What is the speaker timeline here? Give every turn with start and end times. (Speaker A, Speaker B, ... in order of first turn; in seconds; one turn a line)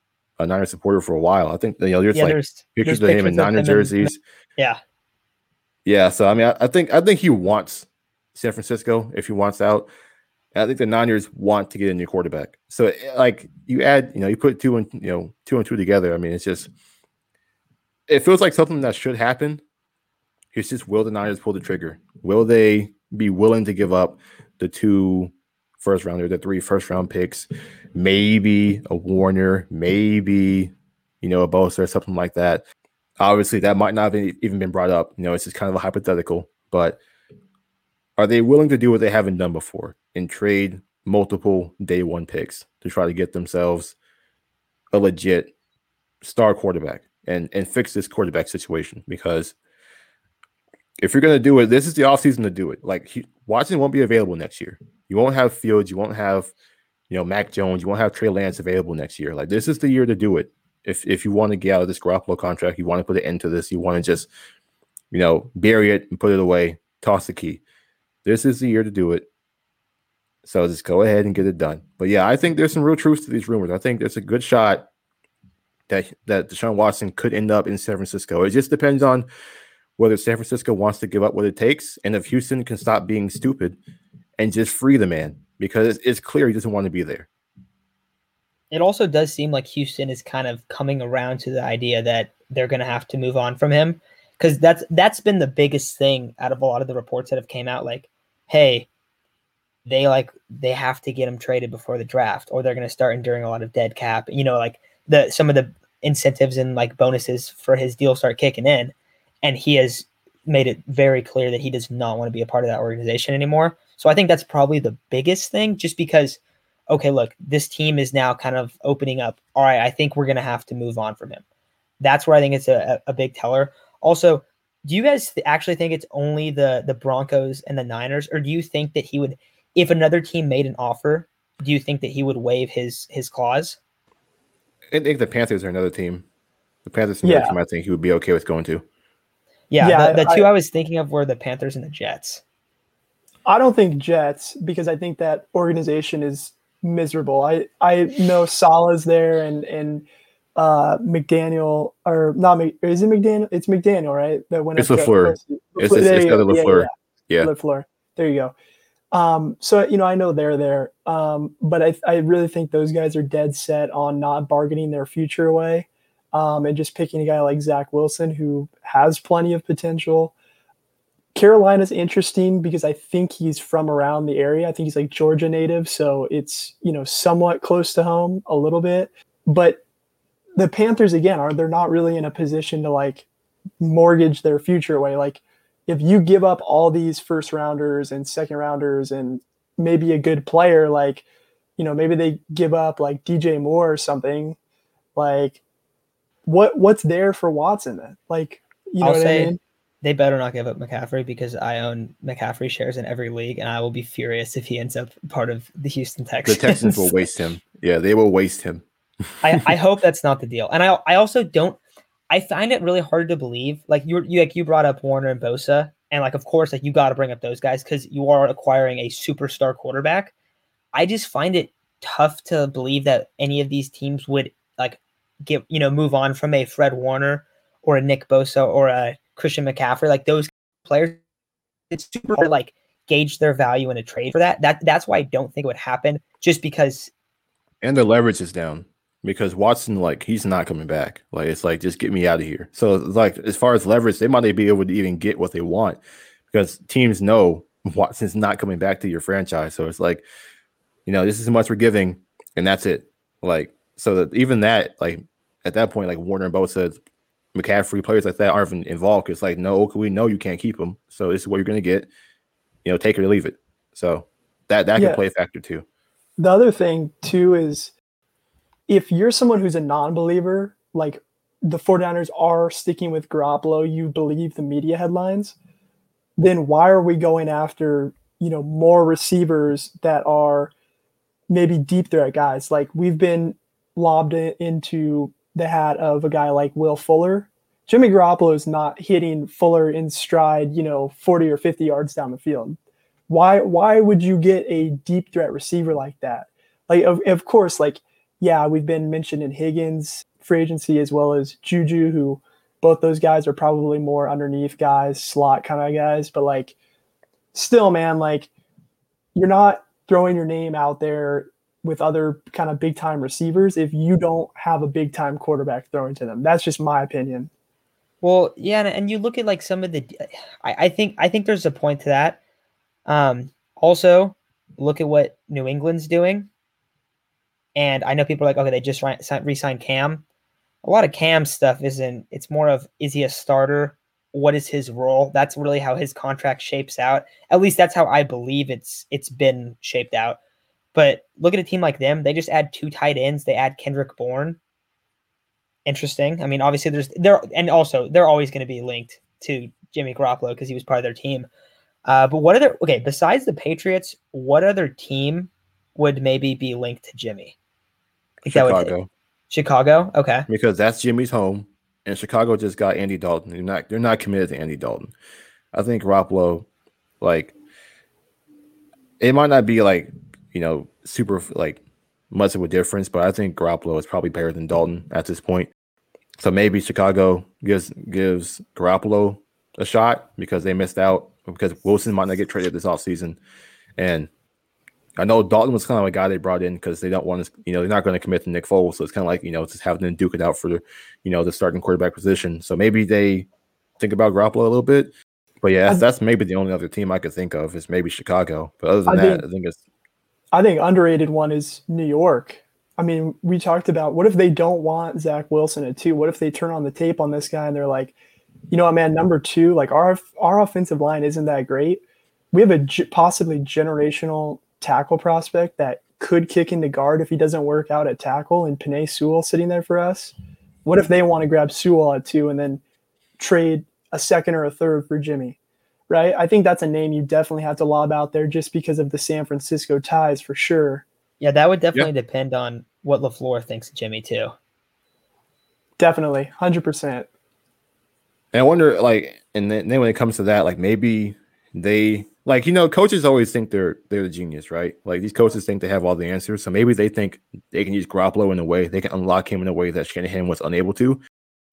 Speaker A: 0.4-4.2
Speaker B: 2.1-4.8
Speaker A: 5.9-9.9
Speaker A: 10.5-16.7
Speaker A: 18.1-19.6
Speaker A: 20.5-32.6
Speaker A: 33.2-37.0
Speaker A: 38.2-44.0
Speaker A: 44.9-45.5
Speaker A: 46.2-49.5
Speaker A: 51.0-56.5
Speaker A: 57.1-64.3
Speaker A: 65.1-67.6
Speaker A: 68.2-69.3
Speaker A: 70.4-74.9
Speaker A: 75.9-79.3
Speaker A: 80.0-83.8
Speaker A: 84.4-87.3
Speaker B: 88.7-98.9
Speaker B: 99.8-121.4
Speaker B: 122.0-133.8
Speaker A: 134.9-136.2
Speaker A: 136.8-138.8
Speaker C: 137.2-137.6
Speaker B: 139.7-142.4
Speaker C: 139.8-140.4
Speaker C: 143.5-158.6
Speaker A: 154.8-157.5
Speaker C: 159.1-170.3
Speaker C: 171.3-179.8
Speaker C: 180.6-183.3
Speaker C: 183.8-191.2
Speaker C: 191.8-194.6
Speaker C: 195.2-195.6
Speaker C: 196.5-199.6
Speaker B: 199.0-207.2
Speaker A: 206.4-208.8
Speaker B: 209.4-211.8
Speaker B: 212.3-220.3
Speaker B: 220.9-231.2
Speaker B: 231.9-237.1
Speaker A: 237.8-246.0
Speaker A: 246.5-250.2
Speaker A: 251.1-257.0
Speaker A: 257.6-262.1
Speaker A: 262.9-265.9
Speaker C: 266.4-267.9
Speaker C: 268.9-275.6
Speaker C: 276.4-280.7
Speaker C: 281.5-292.8
Speaker C: 293.3-306.8
Speaker C: 307.5-308.5
Speaker C: 309.4-317.5
Speaker B: 318.2-322.4
Speaker B: 323.1-326.5
Speaker B: 327.8-330.2
Speaker B: 330.8-340.4
Speaker B: 340.9-344.6
Speaker B: 345.9-351.5
Speaker B: 352.1-357.6
Speaker B: 358.4-358.9
Speaker A: 358.5-359.1
Speaker B: 359.5-360.5
Speaker A: 360.5-365.1
Speaker A: 365.7-366.7
Speaker A: 367.2-367.5
Speaker A: 369.2-375.7
Speaker A: 376.4-383.4
Speaker A: 384.0-384.3
Speaker A: 385.2-393.5
Speaker A: 394.0-399.8
Speaker C: 399.1-399.4
Speaker C: 400.5-408.1
Speaker C: 408.7-412.0
Speaker C: 412.5-420.3
Speaker C: 420.9-422.8
Speaker C: 423.4-425.6
Speaker C: 426.1-431.1
Speaker B: 431.4-434.5
Speaker C: 436.0-437.3
Speaker A: 438.5-451.2